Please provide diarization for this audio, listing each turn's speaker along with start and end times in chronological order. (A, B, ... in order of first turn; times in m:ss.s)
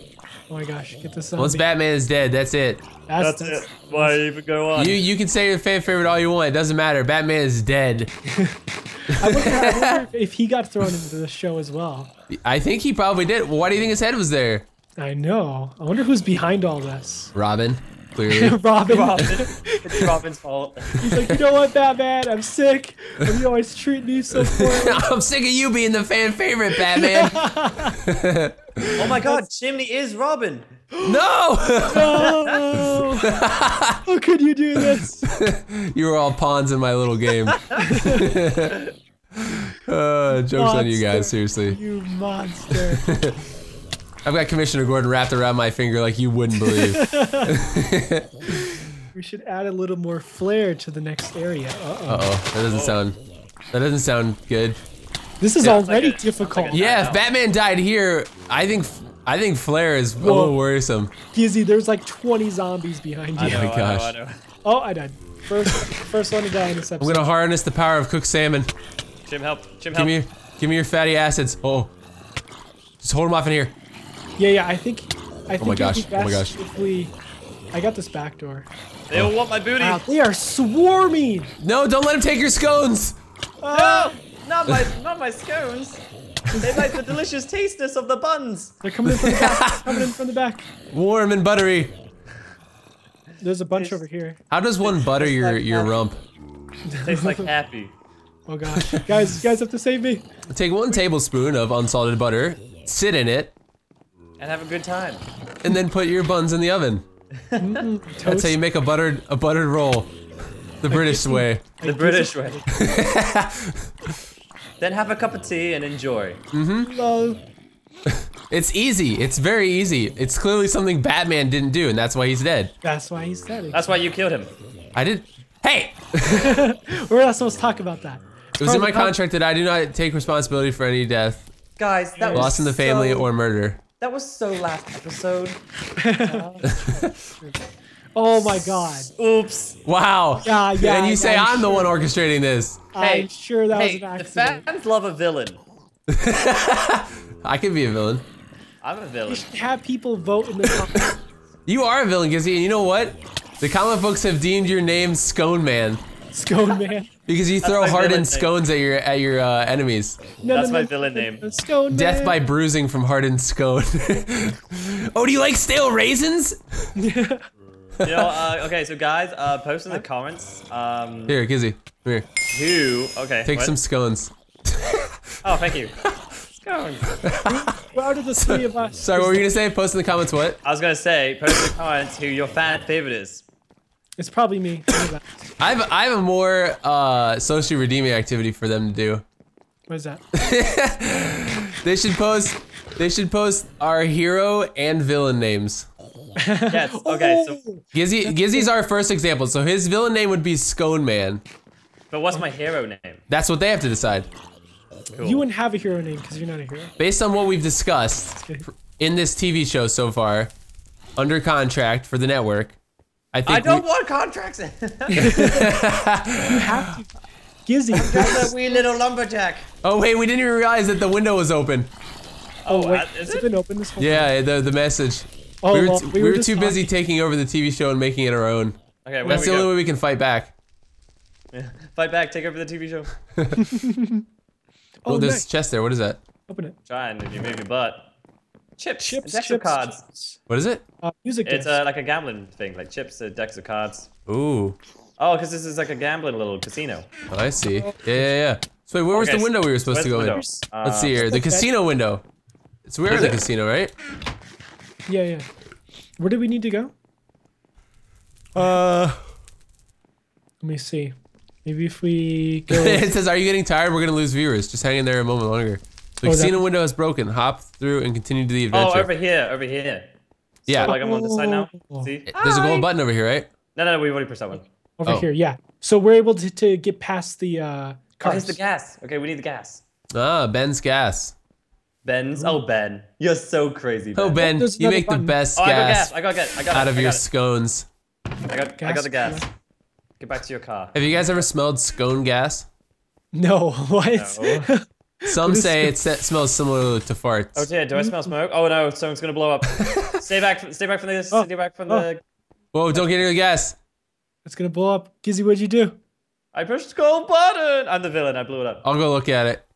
0:00.5-0:01.6 A
0:01.4-0:02.8 B
0:03.1-0:04.2 A
0:03.2-0:05.0 C
0:04.8-0:08.1 B
0:08.3-0:12.1 A
0:09.1-0:10.0 B
0:12.3-0:14.7 B
0:15.0-0:17.3 A
0:17.4-0:18.6 B
0:18.3-0:20.1 A
0:18.9-0:21.1 C
0:21.0-0:25.1 A
0:24.4-0:28.7 B
0:26.9-0:28.0 A
0:28.8-0:29.4 A
0:29.0-0:30.7 C
0:31.0-0:32.4 B
0:31.9-0:33.4 A
0:32.2-0:32.8 C
0:33.2-0:34.0 B
0:34.0-0:35.3 A
0:34.8-0:38.8 B
0:37.8-0:38.3 A
0:39.4-0:41.8 B
0:40.5-0:43.1 A
0:42.9-0:43.4 B
0:44.2-0:48.3 B
0:46.6-0:47.6 A
0:48.5-0:52.3 A
0:52.1-0:53.2 B
0:52.7-0:53.0 C
0:53.7-0:54.8 B
0:55.4-0:56.9 A
0:55.6-0:57.2 C
0:56.7-1:01.1 B
1:00.2-1:00.6 A
1:01.3-1:03.7 A
1:03.4-1:04.4 C
1:03.4-1:04.1 B
1:04.6-1:07.3 A
1:07.0-1:08.7 B
1:09.3-1:10.2 C
1:09.9-1:11.9 B
1:13.0-1:13.8 B
1:14.4-1:17.1 A
1:15.6-1:16.6 B
1:17.7-1:18.7 A
1:19.1-1:20.0 C
1:19.8-1:21.5 A
1:21.6-1:23.2 B
1:23.6-1:24.2 A
1:23.7-1:26.0 C
1:26.5-1:26.8 B
1:26.6-1:28.8 C
1:28.8-1:30.7 A
1:29.0-1:30.0 B
1:30.9-1:32.0 B
1:33.4-1:34.4 A
1:33.7-1:34.0 C
1:34.5-1:36.2 B
1:34.8-1:36.0 C
1:36.9-1:37.5 A
1:37.0-1:37.9 C
1:38.5-1:40.2 A
1:40.5-1:43.5 B
1:44.4-1:45.2 C
1:45.6-1:47.0 B
1:47.5-1:47.8 C
1:47.6-1:48.6 A
1:48.2-1:50.2 B
1:50.8-1:51.6 B
1:50.9-1:53.1 A
1:51.8-1:52.6 C
1:52.7-1:53.9 B
1:54.8-1:56.4 C
1:56.5-1:56.9 B
1:56.8-1:57.4 A
1:58.1-2:02.7 B
2:02.8-2:04.0 A
2:03.7-2:04.5 C
2:05.0-2:06.6 B
2:06.3-2:09.2 A
2:08.6-2:11.5 B
2:11.8-2:13.3 C
2:12.2-2:12.6 A
2:12.3-2:13.8 B
2:14.0-2:15.6 C
2:16.0-2:17.6 A
2:16.2-2:17.0 C
2:16.8-2:17.1 B
2:18.2-2:19.1 A
2:18.4-2:19.8 C
2:19.8-2:22.8 B
2:20.4-2:22.0 A
2:22.9-2:24.6 A
2:23.0-2:25.6 C
2:26.1-2:28.2 B
2:28.8-2:29.5 C
2:29.3-2:31.1 A
2:31.7-2:36.0 B
2:36.3-2:37.1 A
2:37.3-2:40.2 B
2:37.6-2:38.5 C
2:40.4-2:42.4 A
2:40.5-2:41.5 C
2:41.9-2:46.9 B
2:47.0-2:47.4 A
2:48.0-2:48.4 B
2:48.0-2:51.4 C
2:51.3-2:52.3 B
2:52.5-2:53.8 C
2:53.4-2:55.3 B
2:55.4-2:56.0 C
2:56.5-2:57.2 C
2:57.2-2:57.6 B
2:57.4-2:59.6 A
2:58.4-3:00.6 B
3:00.6-3:03.4 C
3:04.2-3:05.5 A
3:05.6-3:09.2 B
3:09.9-3:10.2 A
3:10.3-3:15.9 B
3:16.4-3:18.7 A
3:16.7-3:17.6 C
3:17.9-3:21.4 B
3:22.1-3:23.2 C
3:23.3-3:24.3 B
3:25.1-3:25.5 C
3:25.2-3:26.9 A
3:27.0-3:30.5 B
3:31.2-3:32.8 B
3:33.3-3:33.8 B
3:33.5-3:35.5 C
3:35.1-3:35.7 A
3:35.1-3:36.6 B
3:36.5-3:37.1 A
3:37.6-3:38.6 A
3:38.0-3:39.7 C
3:38.1-3:38.4 B
3:39.8-3:41.9 B
3:42.6-3:43.5 C
3:42.7-3:44.3 A
3:44.0-3:50.5 B
3:45.6-3:46.9 A
3:49.0-3:49.7 C
3:49.2-3:49.6 A
3:51.5-3:53.1 C
3:53.4-3:53.6 B
3:53.6-3:54.2 A
3:55.0-3:55.5 A
3:55.1-3:56.2 B
3:56.5-3:56.8 A
3:56.9-3:58.1 C
3:58.8-4:00.0 C
3:59.0-4:00.4 A
4:00.5-4:00.8 B
4:01.0-4:01.8 A
4:01.4-4:04.1 C
4:04.3-4:04.8 B
4:05.2-4:07.1 C
4:07.3-4:12.2 B
4:07.6-4:08.3 A
4:09.1-4:11.3 C
4:10.2-4:11.7 A
4:12.9-4:13.9 B
4:13.1-4:13.4 A
4:15.1-4:15.5 A
4:16.2-4:16.9 A
4:18.6-4:19.2 B
4:20.6-4:21.1 A
4:21.6-4:23.1 A
4:22.7-4:29.1 B
4:26.2-4:26.6 A
4:28.7-4:30.1 C
4:30.7-4:32.9 C
4:30.7-4:31.0 B
4:30.8-4:32.1 A
4:32.3-4:33.5 B
4:33.8-4:34.7 C
4:35.0-4:38.6 A
4:38.2-4:39.8 C
4:40.1-4:41.3 B
4:42.0-4:44.4 C
4:44.2-4:46.1 B
4:44.4-4:45.4 A
4:45.6-4:47.2 C
4:46.7-4:47.9 B
4:48.5-4:49.5 C
4:48.8-4:49.4 A
4:50.2-4:51.4 C
4:50.9-4:52.7 B
4:53.3-4:56.0 A
4:54.1-4:54.7 C
4:55.3-4:57.7 B
4:57.6-5:02.2 C
4:58.0-4:58.3 A
4:59.8-5:00.2 B
5:01.3-5:02.1 A
5:02.7-5:03.8 B
5:04.4-5:06.0 A
5:06.5-5:08.8 C
5:08.8-5:09.7 B